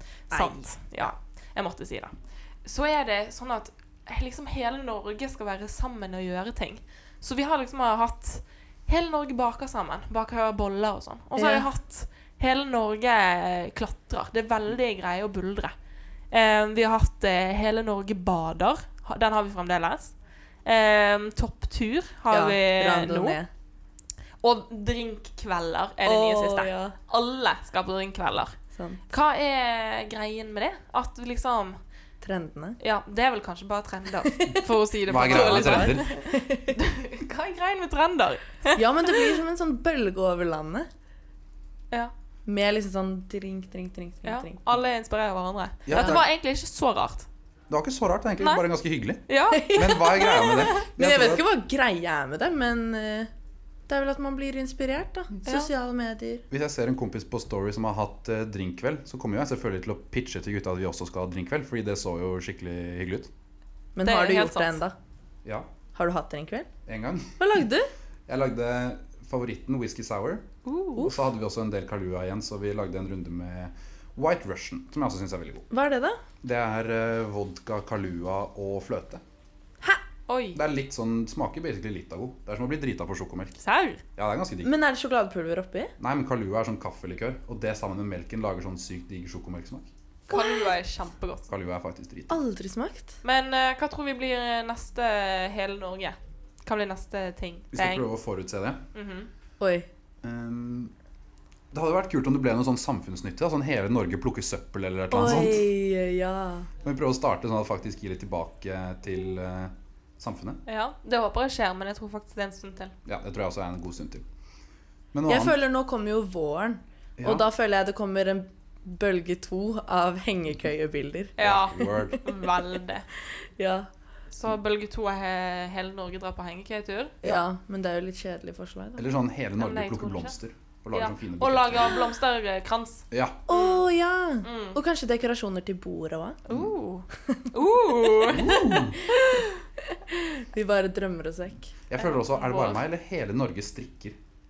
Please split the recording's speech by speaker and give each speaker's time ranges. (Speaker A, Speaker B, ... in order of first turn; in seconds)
Speaker A: 0.3-15.7, 16.3-23.4, 24.4-28.6, 29.1-31.8, 32.8-39.4, 44.2-47.3, 49.3-49.8, 50.4-50.9, 64.0-64.8, 70.7-71.1, 80.3-80.6, 83.6-84.0, 90.3-91.5, 93.2-98.1, 98.9-99.3, 110.7-113.0, 121.4-123.1, 124.3-127.4, 129.6-130.3, 130.9-133.8, 134.4-134.8, 136.5-139.6, 142.0-142.8
Speaker B: 0.3-0.8, 11.4-11.7, 22.3-23.5, 26.0-27.0, 28.8-29.0, 32.2-32.8, 34.3-36.8, 38.8-40.9, 42.5-44.6, 45.9-46.2, 49.5-53.3, 53.9-56.4, 64.0-64.9, 66.0-66.7, 67.4-67.9, 75.7-76.2, 84.6-85.9, 90.3-90.7, 92.3-93.2, 99.6-99.9, 105.1-106.7, 115.3-122.2, 123.6-123.9, 127.2-129.0, 133.5-136.4, 140.1-141.7
Speaker C: 35.1-36.1, 45.9-46.3, 47.7-51.4, 56.5-63.3, 66.9-67.4, 68.3-70.5, 71.0-75.7, 76.4-79.2, 80.5-83.6, 84.2-84.7, 86.0-89.9, 91.5-92.4, 97.7-98.8, 100.2-100.9, 101.7-105.7, 106.8-110.6, 113.0-114.2, 115.1-115.6, 117.2-117.5, 121.4-122.2, 129.0-132.0, 133.1-133.4, 138.3-139.0, 141.9-144.2